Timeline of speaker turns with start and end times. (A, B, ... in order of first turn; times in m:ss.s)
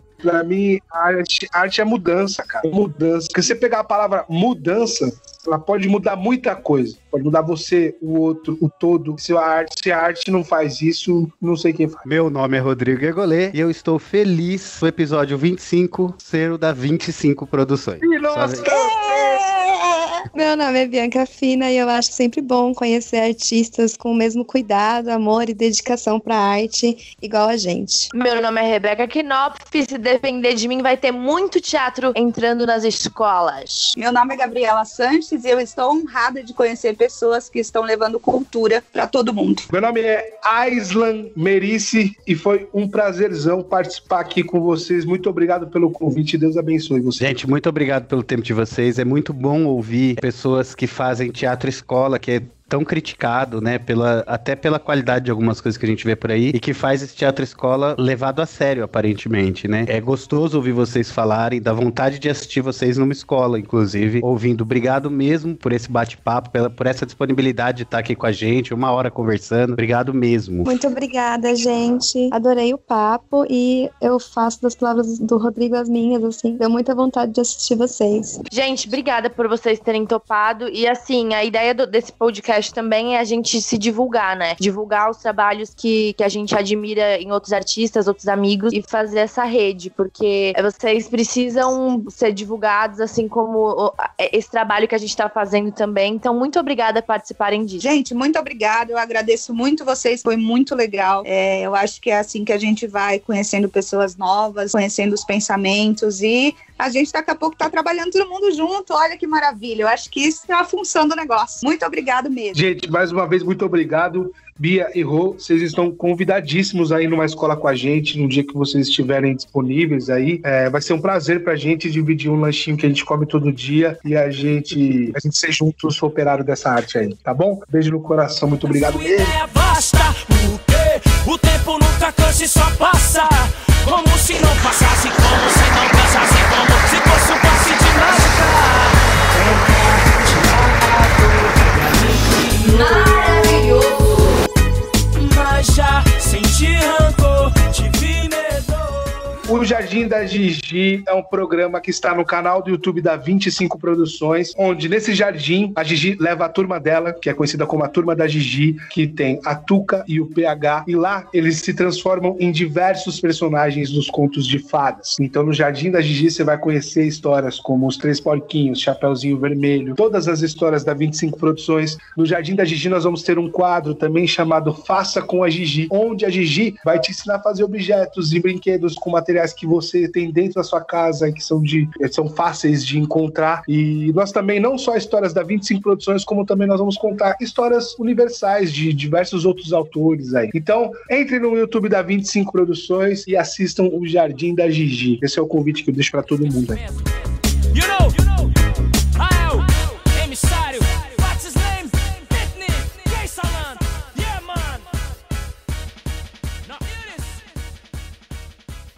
0:00.2-0:12.0 A
0:12.0-0:18.6 B
0:18.0-0:19.5 A
0:18.6-0:20.2 C
0:20.3-0:28.1 D
0:28.1-0:33.9 E
0:34.0-0:39.7 C
0:39.7-0:47.4 A
0:47.2-1:10.8 B
1:10.6-1:18.4 D
1:18.5-1:37.8 E
1:37.8-1:52.6 C
1:52.5-2:09.4 A
2:08.6-2:24.4 F
2:25.2-2:29.3 F
2:29.4-3:16.8 A
3:16.6-3:17.1 F
3:17.7-3:18.6 F
3:19.1-3:25.0 F
3:26.6-3:27.6 F